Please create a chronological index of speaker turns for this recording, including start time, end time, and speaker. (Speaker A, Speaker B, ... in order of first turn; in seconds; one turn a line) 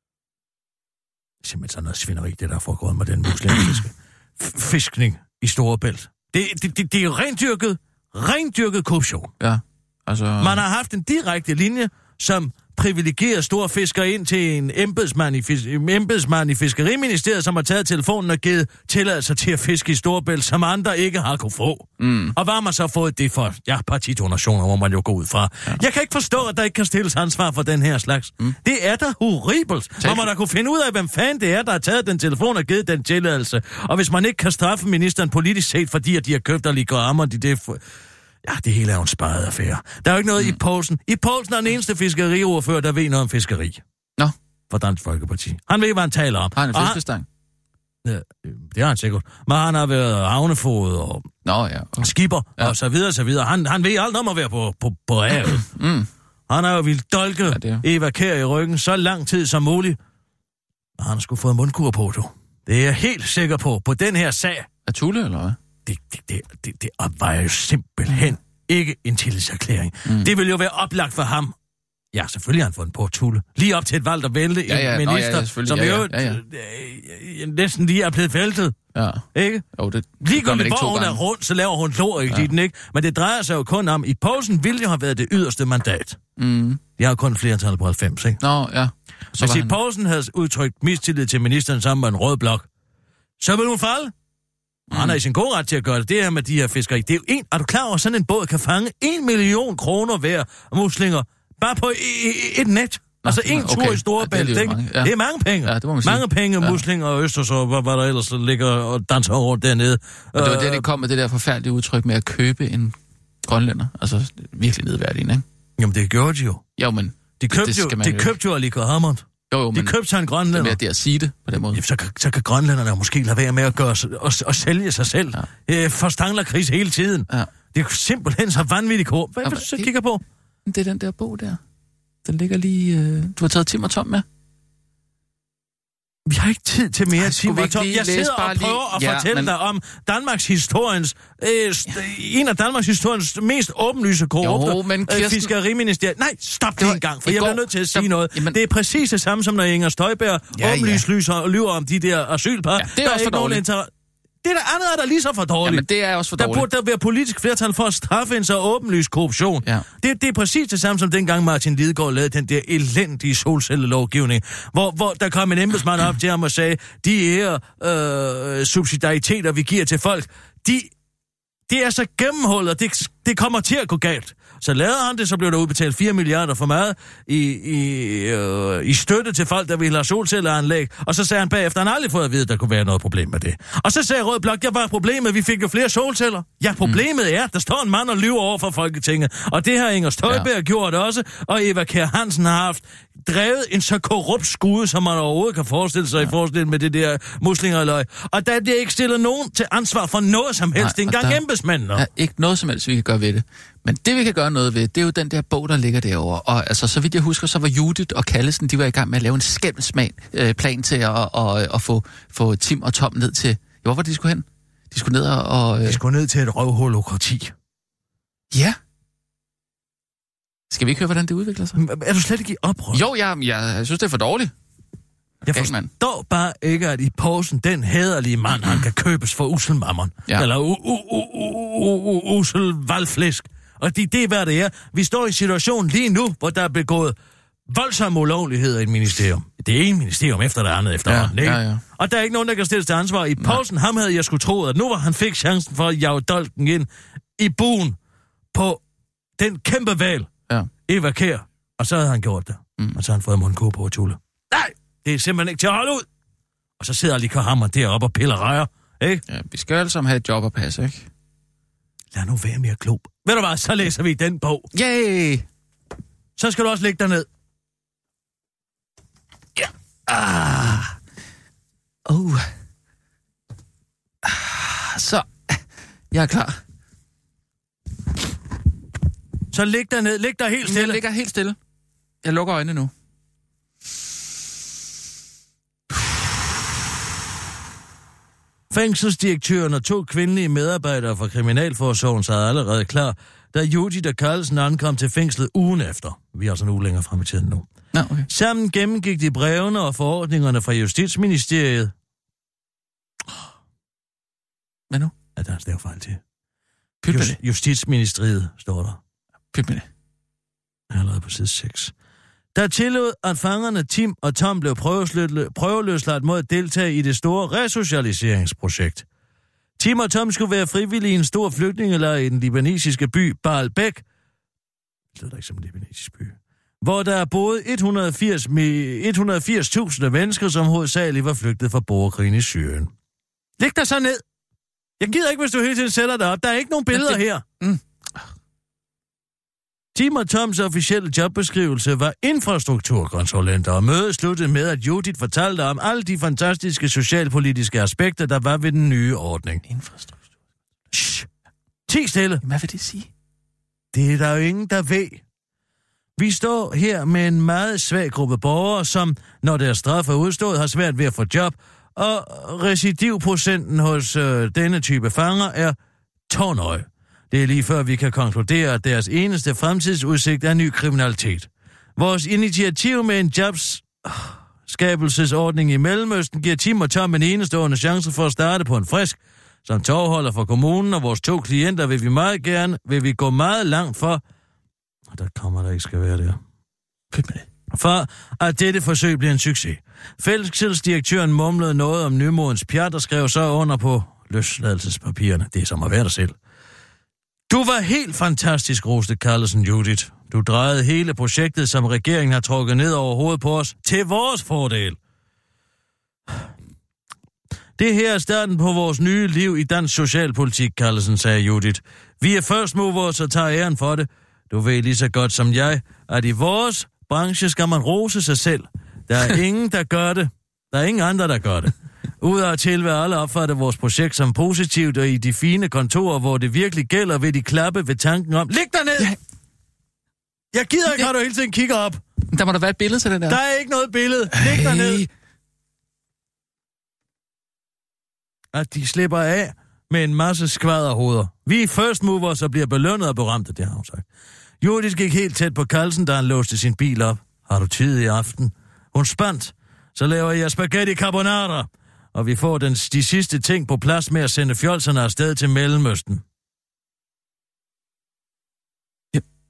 Speaker A: 1.4-9.3
Speaker B: 9.4-10.6
Speaker A: 10.4-37.8
Speaker B: 22.0-22.3
Speaker B: 30.0-30.3
Speaker A: 38.4-43.8
Speaker A: 44.7-47.0
Speaker B: 46.5-47.2
Speaker A: 48.0-51.3
Speaker B: 51.5-52.7
Speaker A: 52.0-55.7
Speaker B: 55.6-56.1
Speaker A: 56.5-60.0
Speaker B: 57.5-57.8
Speaker A: 61.0-64.7
Speaker B: 64.8-65.6
Speaker A: 65.8-71.5
Speaker B: 68.1-68.3
Speaker B: 70.0-70.3
Speaker A: 72.1-78.7
Speaker B: 74.7-76.4
Speaker B: 78.9-81.2
Speaker A: 79.3-79.7
Speaker A: 80.2-86.2
Speaker B: 82.3-82.5
Speaker B: 86.4-86.8
Speaker A: 87.0-88.4
Speaker B: 88.4-89.8
Speaker A: 89.3-92.7
Speaker A: 93.4-94.1
Speaker B: 94.9-95.2
Speaker A: 94.9-110.8
Speaker B: 103.2-105.1
Speaker B: 105.6-106.8
Speaker B: 110.3-115.4
Speaker A: 115.8-116.6
Speaker B: 116.8-118.3
Speaker A: 117.4-120.8
Speaker B: 119.5-119.9
Speaker B: 120.5-121.8
Speaker A: 121.7-130.2
Speaker B: 129.4-129.9
Speaker B: 130.7-131.6
Speaker B: 132.2-134.2
Speaker A: 136.3-153.9
Speaker B: 137.2-139.5
Speaker B: 144.4-145.5
Speaker B: 146.8-148.6
Speaker B: 150.5-151.0
Speaker B: 152.8-153.6
Speaker A: 154.4-155.8
Speaker B: 155.6-156.7
Speaker A: 156.4-170.9
Speaker A: 171.7-202.0
Speaker B: 200.8-201.4
Speaker B: 201.9-216.0
Speaker A: 215.8-217.5
Speaker B: 218.5-218.8
Speaker B: 220.7-221.8
Speaker A: 221.8-223.0
Speaker B: 222.9-224.5
Speaker B: 225.4-225.9
Speaker A: 225.5-237.1
Speaker A: 237.7-247.9
Speaker B: 241.1-241.8
Speaker A: 248.5-248.8
Speaker A: 249.4-250.3
Speaker A: 250.9-256.0
Speaker A: 256.8-259.2
Speaker B: 259.3-261.1
Speaker A: 262.1-264.7
Speaker B: 264.7-265.4
Speaker A: 266.4-267.2
Speaker B: 269.6-270.9
Speaker B: 272.1-272.5
Speaker B: 274.2-276.6
Speaker A: 279.5-281.0
Speaker B: 280.6-281.6
Speaker B: 282.2-282.9
Speaker A: 288.7-297.7
Speaker B: 297.9-298.3
Speaker A: 298.3-301.9
Speaker B: 304.9-305.1
Speaker A: 305.4-306.2
Speaker B: 307.0-307.4
Speaker A: 307.1-309.0
Speaker B: 309.5-309.9
Speaker A: 310.9-311.9
Speaker A: 312.5-319.0
Speaker A: 319.8-324.0
Speaker A: 325.1-332.9
Speaker A: 333.6-334.2
Speaker A: 335.0-337.4
Speaker B: 336.9-338.3
Speaker A: 339.9-349.6
Speaker B: 349.6-350.2
Speaker A: 350.9-351.3
Speaker A: 351.9-352.4
Speaker B: 352.4-353.1
Speaker A: 353.9-355.2
Speaker A: 356.2-365.8
Speaker A: 366.3-384.2
Speaker A: 385.1-386.4
Speaker B: 387.1-387.5
Speaker A: 387.7-396.3
Speaker A: 397.5-405.0
Speaker A: 407.8-429.1
Speaker A: 430.5-432.0
Speaker B: 432.3-433.4
Speaker A: 433.3-435.0
Speaker B: 434.3-435.1
Speaker A: 438.5-444.0
Speaker A: 444.6-456.2